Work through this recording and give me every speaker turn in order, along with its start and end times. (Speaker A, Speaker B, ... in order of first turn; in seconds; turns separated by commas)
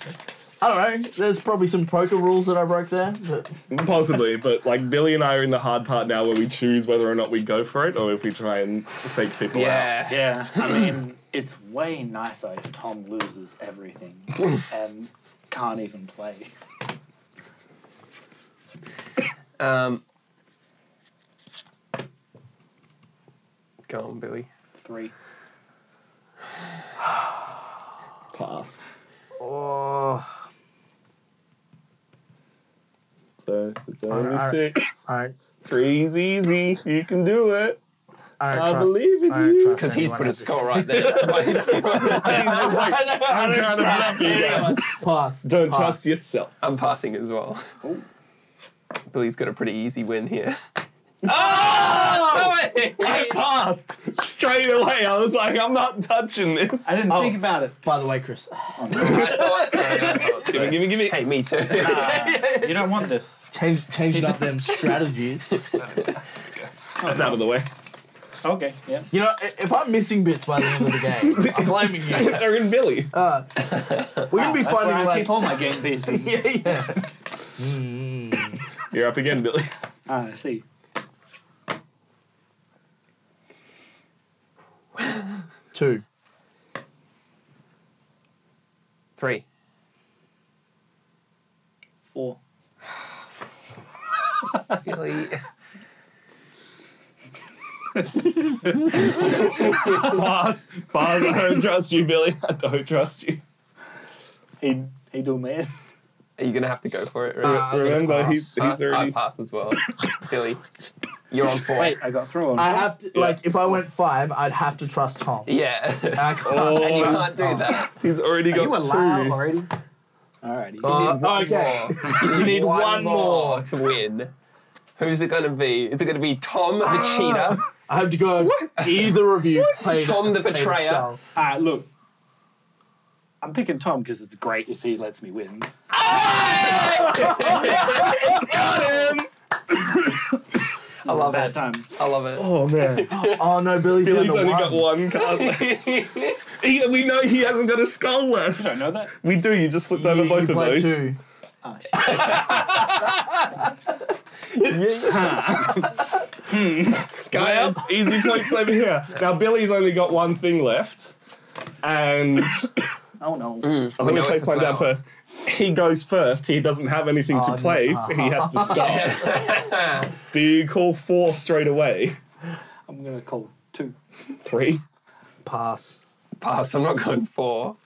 Speaker A: 0.6-3.6, Speaker B: 3.7-10.0, Speaker C: 9.5-10.9, Speaker D: 10.1-16.5, Speaker C: 19.6-20.0, Speaker C: 23.9-24.5, Speaker D: 24.8-25.1, Speaker B: 28.3-28.8, Speaker A: 29.4-30.3, Speaker B: 33.5-35.0, Speaker A: 34.1-35.4, Speaker B: 35.6-37.8, Speaker A: 38.4-46.1, Speaker B: 38.5-39.9, Speaker C: 39.7-42.9, Speaker B: 41.9-44.9, Speaker D: 44.4-44.8, Speaker B: 45.4-46.5, Speaker C: 46.6-47.6, Speaker C: 49.1-50.6, Speaker C: 51.2-53.4, Speaker B: 51.2-57.1, Speaker D: 56.9-57.8, Speaker A: 57.1-60.4, Speaker D: 58.8-59.5, Speaker C: 58.9-62.2, Speaker B: 59.0-59.5, Speaker B: 60.4-61.4, Speaker D: 61.6-63.5, Speaker A: 61.8-65.7, Speaker D: 64.1-64.5, Speaker C: 65.7-66.0, Speaker B: 66.6-67.7, Speaker D: 67.0-67.4, Speaker D: 68.4-69.1, Speaker A: 69.1-72.5, Speaker B: 71.1-73.1, Speaker A: 73.1-73.5, Speaker A: 74.2-78.6, Speaker D: 74.3-76.5, Speaker B: 78.9-79.7, Speaker D: 80.1-80.6, Speaker A: 85.7-86.0, Speaker C: 89.2-89.4, Speaker D: 92.1-92.4, Speaker C: 94.8-95.4, Speaker D: 98.2-98.8, Speaker B: 98.9-103.4, Speaker D: 99.3-100.0, Speaker D: 104.6-105.7, Speaker C: 106.4-107.9, Speaker A: 107.4-108.5, Speaker B: 107.4-109.2, Speaker C: 108.5-110.6, Speaker C: 111.3-112.0, Speaker D: 111.8-112.9, Speaker A: 112.5-115.5, Speaker B: 113.1-113.4, Speaker C: 115.5-117.9, Speaker A: 116.1-117.7, Speaker B: 116.4-119.4, Speaker C: 118.5-119.4, Speaker D: 118.7-119.7, Speaker D: 120.4-121.0, Speaker A: 120.8-123.7, Speaker C: 120.8-124.3, Speaker C: 125.0-127.6, Speaker A: 126.9-131.2, Speaker C: 128.8-131.1, Speaker D: 131.4-131.9, Speaker D: 133.4-135.7, Speaker C: 135.9-138.7, Speaker B: 136.9-139.3, Speaker A: 137.5-138.1, Speaker D: 141.0-141.9, Speaker C: 142.0-143.5, Speaker B: 142.4-143.1, Speaker A: 143.1-144.9, Speaker B: 143.9-146.0, Speaker C: 145.1-146.4, Speaker B: 146.5-151.1, Speaker D: 148.5-149.1, Speaker A: 149.9-151.2, Speaker D: 151.6-152.9, Speaker A: 152.5-153.2, Speaker C: 154.6-155.1, Speaker D: 155.0-157.2, Speaker B: 157.1-161.1, Speaker B: 161.8-162.7, Speaker D: 163.2-163.9, Speaker C: 163.6-164.9, Speaker B: 164.0-169.4, Speaker A: 167.3-169.2, Speaker C: 168.6-170.1, Speaker B: 170.3-172.2, Speaker D: 172.9-174.0, Speaker B: 174.4-174.8, Speaker A: 175.4-176.0, Speaker C: 176.4-177.8